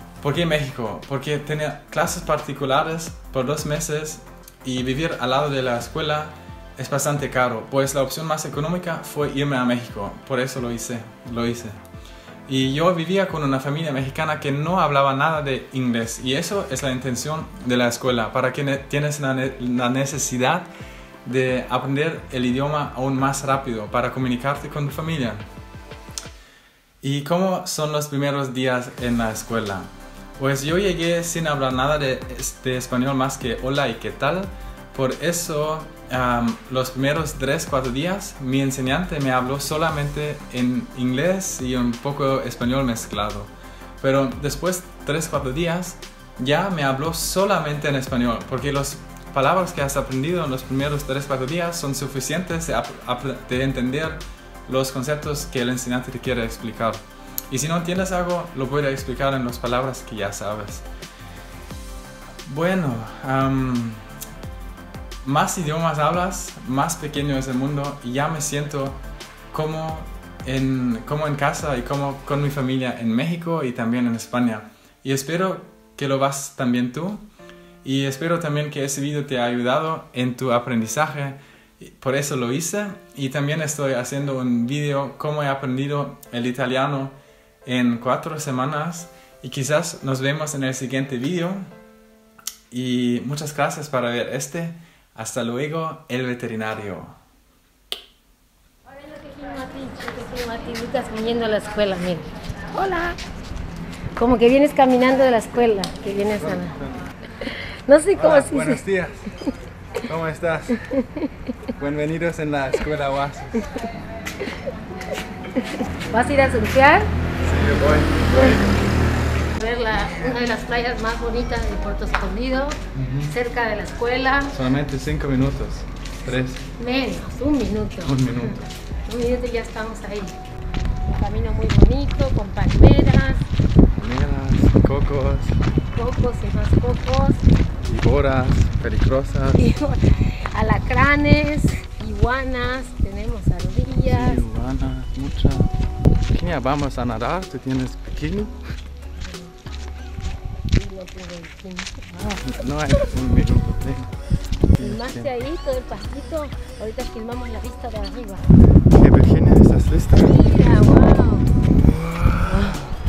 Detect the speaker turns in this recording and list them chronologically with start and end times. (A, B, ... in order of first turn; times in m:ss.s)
0:00.2-0:11.8 A
0:12.5-0:20.7 A
0:21.2-0:25.4 A
0:27.0-1:00.9 A
1:02.4-1:04.1 A
1:05.2-1:17.3 A
1:17.8-1:31.7 A
1:32.7-1:37.2 A
1:39.2-1:43.2 B
1:44.2-1:46.7 B
1:46.4-1:47.1 A
1:47.5-1:48.8 B
1:48.1-1:49.3 A
1:50.0-1:50.8 A
1:50.9-1:51.2 B
1:51.8-1:53.7 A
1:55.8-1:57.1 B
1:57.4-1:58.8 A
1:58.4-1:58.6 B
1:59.6-2:02.8 B
2:02.9-2:03.4 A
2:03.3-2:04.5 B
2:04.5-2:06.6 A
2:06.8-2:10.4 B
2:08.0-2:08.7 A
2:11.1-2:13.4 B
2:13.9-2:15.6 A
2:15.9-2:17.4 B
2:17.8-2:19.7 A
2:19.6-2:24.4 B
2:24.1-2:25.7 A
2:26.3-2:28.6 A
2:29.2-2:29.5 B
2:30.7-2:31.9 B
2:32.1-2:34.1 A
2:34.7-2:35.3 A
2:34.8-2:38.4 B
2:38.9-2:40.4 A
2:40.2-2:41.5 B
2:41.8-2:42.9 A